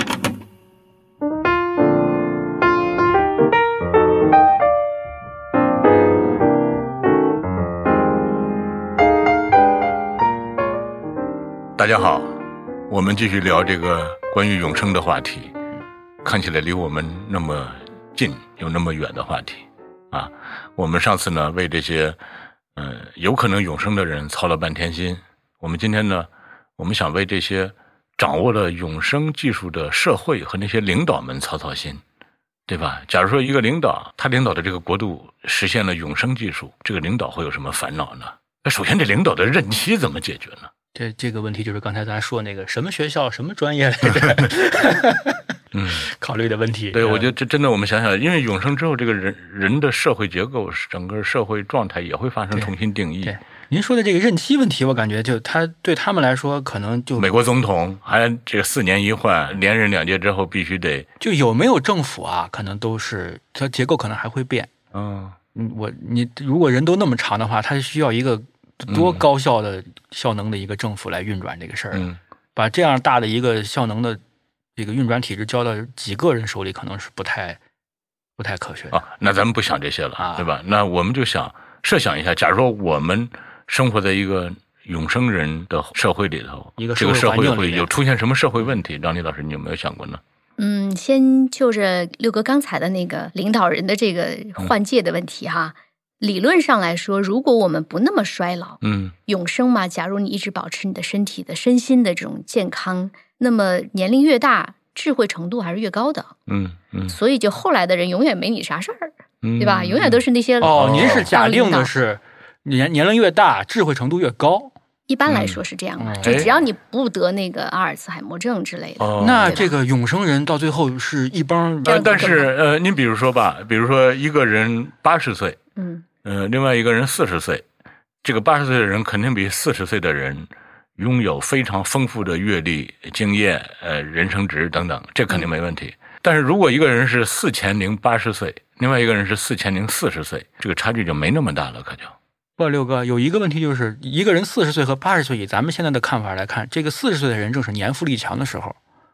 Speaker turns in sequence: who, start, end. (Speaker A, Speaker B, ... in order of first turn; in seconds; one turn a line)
Speaker A: 11.8-15.5
Speaker A: 16.2-22.2
Speaker A: 22.8-32.0
Speaker A: 32.7-40.7
Speaker B: 40.9-47.3
Speaker A: 45.7-46.1
Speaker A: 46.9-53.3
Speaker B: 52.5-57.3
Speaker A: 57.2-61.1
Speaker B: 61.2-64.7
Speaker A: 64.9-65.3
Speaker B: 65.5-74.2
Speaker A: 68.9-69.2
Speaker A: 71.9-72.2
Speaker B: 74.8-77.6
Speaker B: 78.4-79.0
Speaker A: 78.9-90.2
Speaker B: 80.2-80.5
Speaker B: 86.8-87.9
Speaker C: 90.6-106.3
Speaker A: 98.8-99.1
Speaker A: 106.5-107.2
Speaker C: 107.1-111.9
Speaker A: 109.4-111.3
Speaker B: 110.6-114.7
Speaker C: 115.1-119.7
Speaker A: 115.3-115.6
Speaker B: 116.0-116.5
Speaker A: 116.2-116.5
Speaker A: 119.0-119.6
Speaker B: 119.2-122.5
Speaker A: 121.8-125.6
Speaker C: 121.8-122.5
Speaker C: 125.8-126.0
Speaker A: 126.2-127.6
Speaker A: 128.2-142.1
Speaker B: 142.6-148.8